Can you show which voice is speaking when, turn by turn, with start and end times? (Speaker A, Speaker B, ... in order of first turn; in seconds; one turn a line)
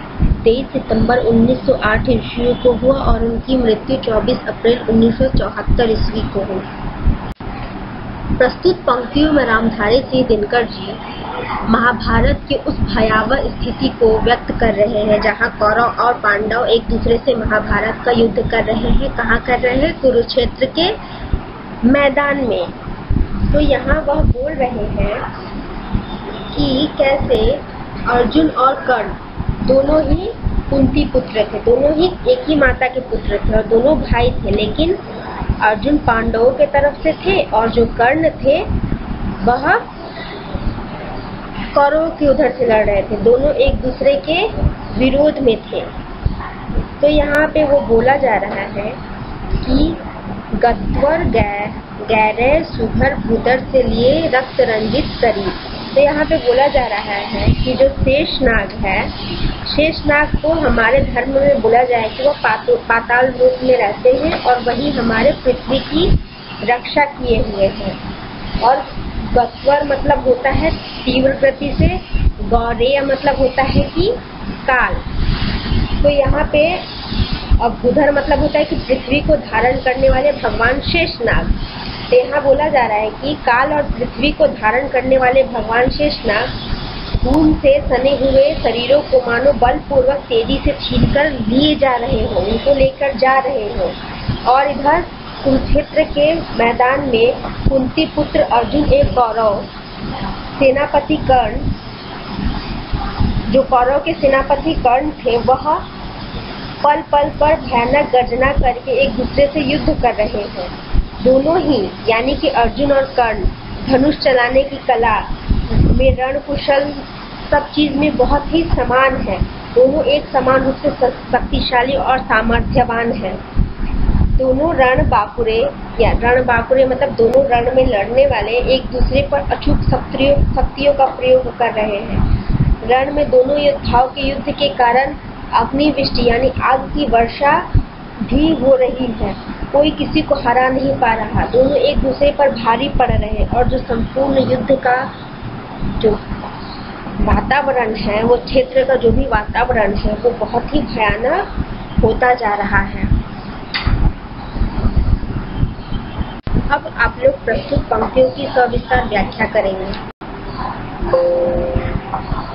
Speaker A: 0.4-6.7
Speaker A: 8.4-11.0
Speaker A: 11.7-21.0
Speaker A: 21.9-22.7
Speaker A: 23.5-25.2
Speaker A: 26.5-35.0
Speaker A: 35.6-38.7
Speaker A: 39.4-39.9
Speaker A: 41.7-45.9
Speaker A: 47.0-49.0
Speaker A: 49.6-50.0
Speaker A: 50.6-59.1
Speaker A: 59.6-68.0
Speaker A: 68.6-75.0
Speaker A: 76.0-76.9
Speaker A: 77.6-81.6
Speaker A: 82.1-86.5
Speaker A: 87.2-99.7
Speaker A: 100.6-101.7
Speaker A: 103.5-105.8
Speaker A: 106.8-123.4
Speaker A: 124.4-132.3
Speaker A: 132.8-137.7
Speaker A: 138.2-145.1
Speaker A: 146.0-146.2
Speaker A: 147.2-151.5
Speaker A: 152.0-153.1
Speaker A: 156.7-160.0